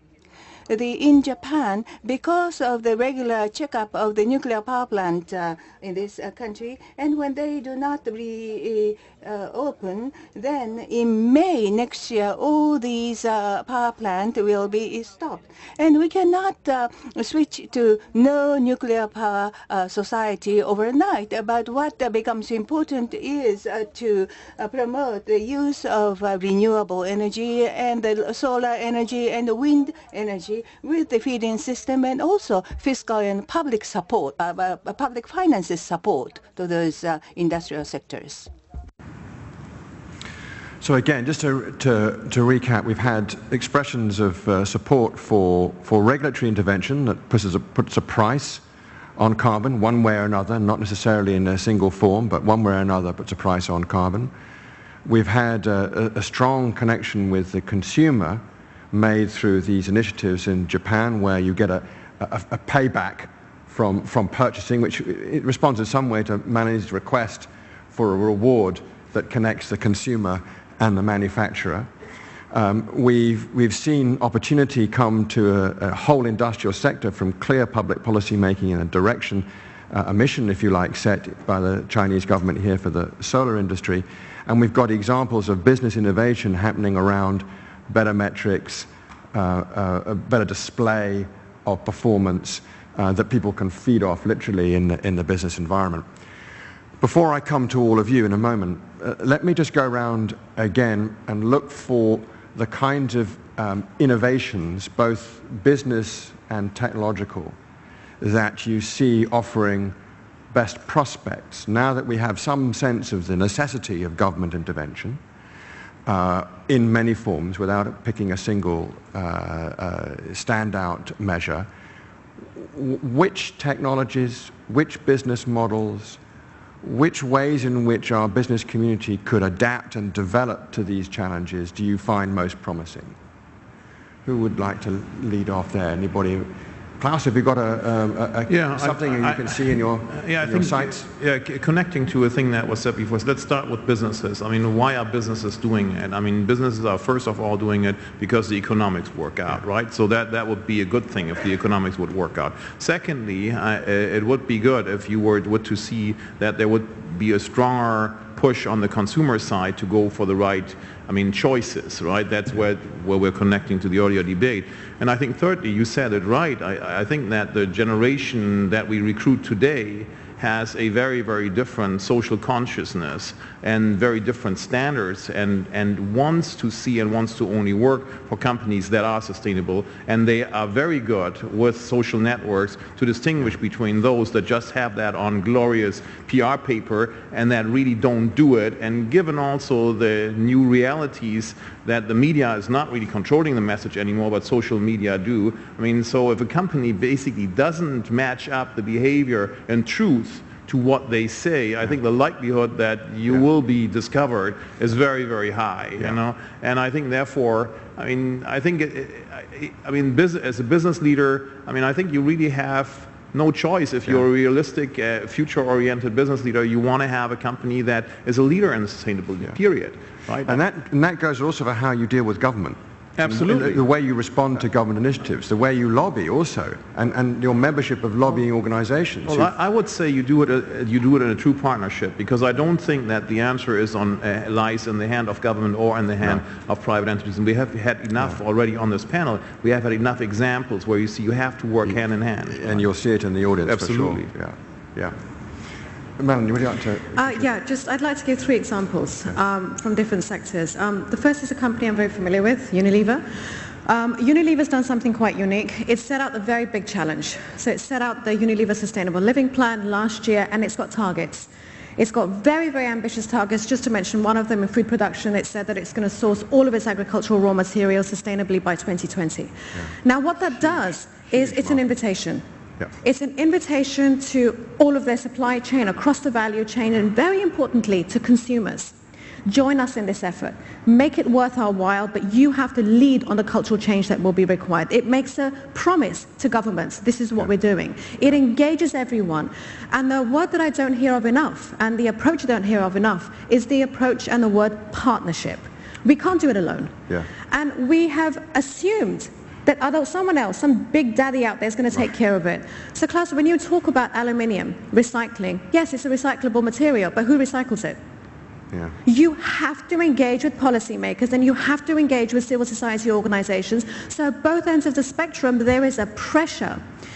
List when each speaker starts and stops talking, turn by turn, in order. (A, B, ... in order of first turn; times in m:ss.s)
0:00.7-0:38.5 A
0:40.8-0:48.6 B
0:49.2-0:54.3 B
0:55.0-1:11.9 B
1:12.5-1:36.0 B
1:37.0-1:47.6 B
1:48.2-1:50.0 B
1:50.5-1:55.2 B
1:56.0-2:01.7 B
2:02.6-2:06.2 B
2:06.8-2:13.2 B
2:14.2-2:21.1 B
2:18.5-3:40.6 C
3:40.4-3:49.5 B
3:43.2-3:43.8 C
3:49.3-4:02.9 C
4:02.4-4:05.2 B
4:03.6-4:04.3 C
4:06.2-4:07.5 B
4:07.2-4:32.4 D
4:31.3-4:31.8 B
4:33.0-4:38.9 D
4:39.4-4:56.9 D
4:57.5-5:08.0 D
5:08.7-5:09.0 B
5:09.0-5:16.8 D